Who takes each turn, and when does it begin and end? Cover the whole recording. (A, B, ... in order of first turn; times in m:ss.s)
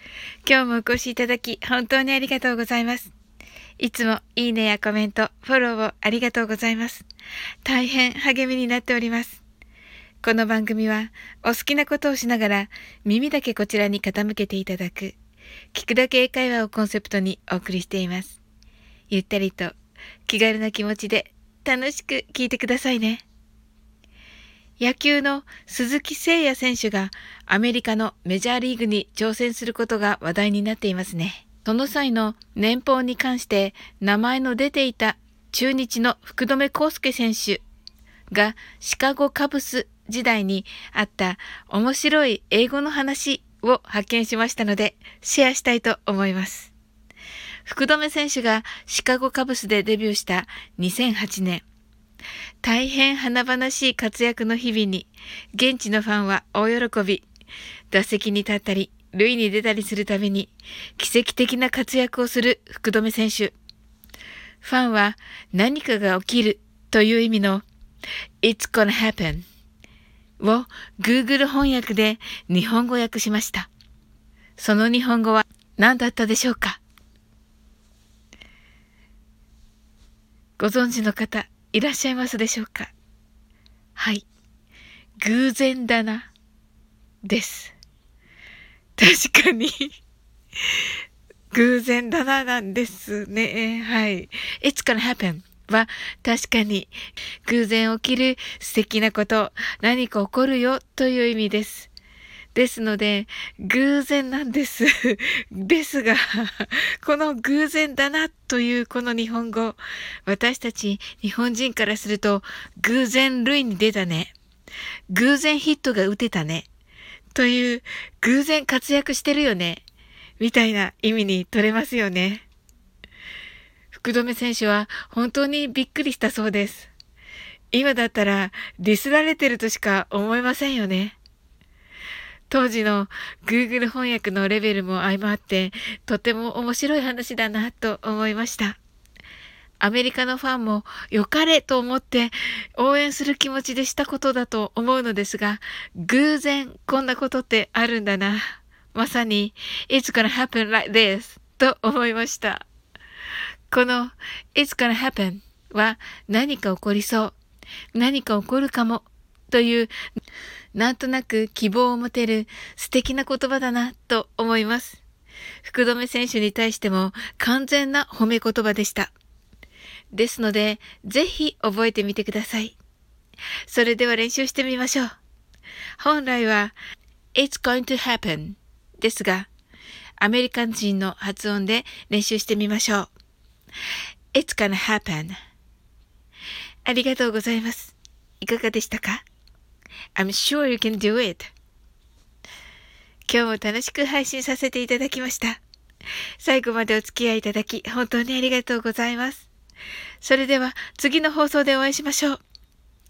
0:00.4-0:03.1 A
0:03.8-0:07.1 A
0:07.6-0:09.4 A
0:10.2-0:15.2 A
0:15.7-0:18.4 A
0:19.1-0:19.8 A
0:20.3-0:23.2 A
0:24.8-0:37.6 A
0:38.3-0:46.7 A
0:47.7-0:51.6 A
0:52.6-0:57.2 A
0:57.9-1:03.6 A
1:04.6-1:07.6 A
1:08.4-1:09.4 A
1:10.4-1:13.7 A
1:14.6-1:16.8 A
1:20.6-1:22.9 A
1:24.0-1:24.2 A
1:25.2-1:26.3 A
1:27.2-1:27.7 A
1:29.0-1:30.0 A
1:31.5-1:36.9 A
1:37.5-1:41.9 A
1:42.6-1:54.3 A
1:55.1-1:56.7 A
1:57.3-1:59.8 A
2:00.4-2:02.4 A
2:03.9-2:06.9 A
2:07.7-2:11.2 A
2:12.5-2:18.8 A
2:19.8-2:32.7 A
2:33.7-2:37.3 A
2:37.9-2:39.9 A
2:40.8-2:45.0 A
2:45.6-2:49.1 A
2:50.1-2:52.8 A
2:53.7-2:55.1 A
2:56.0-2:56.8 A
2:57.4-2:59.5 A
3:00.2-3:03.1 A
3:04.3-3:05.4 A
3:06.8-3:09.3 A
3:10.2-3:11.5 A
3:13.3-3:15.6 A
3:16.4-3:19.5 A
3:20.2-3:22.4 A